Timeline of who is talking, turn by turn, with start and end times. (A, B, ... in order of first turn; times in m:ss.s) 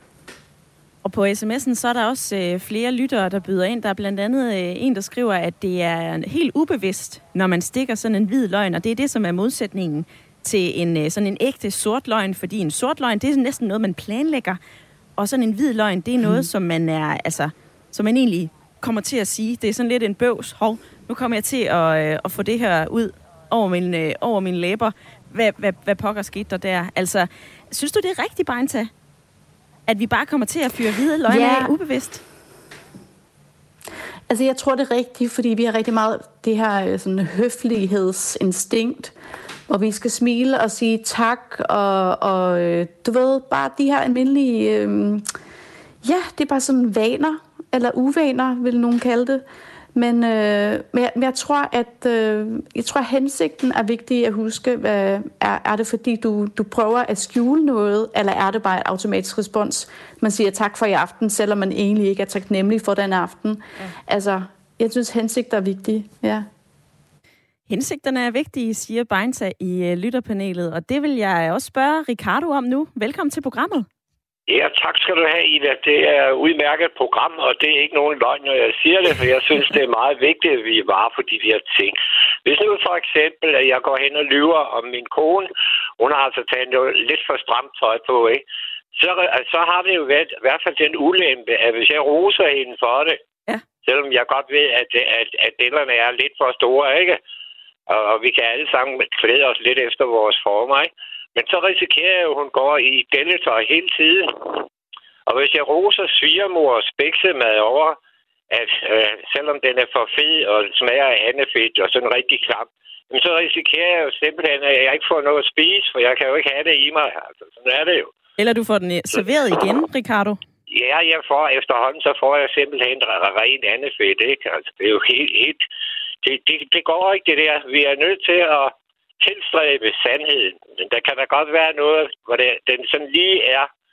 0:01.0-0:14.6 A
0:15.2-0:28.9 A
0:29.9-0:32.2 A
0:31.3-0:31.7 B
0:34.3-0:39.1 B
0:39.7-0:45.3 B
0:46.0-0:49.4 B
0:50.0-1:06.5 B
1:07.7-1:13.9 A
1:14.5-1:33.2 C
1:33.8-1:37.2 C
1:37.9-1:44.6 C
1:45.3-1:48.0 C
1:48.5-1:58.1 C
1:58.4-2:00.4 A
2:00.7-2:05.6 C
2:06.2-2:13.7 C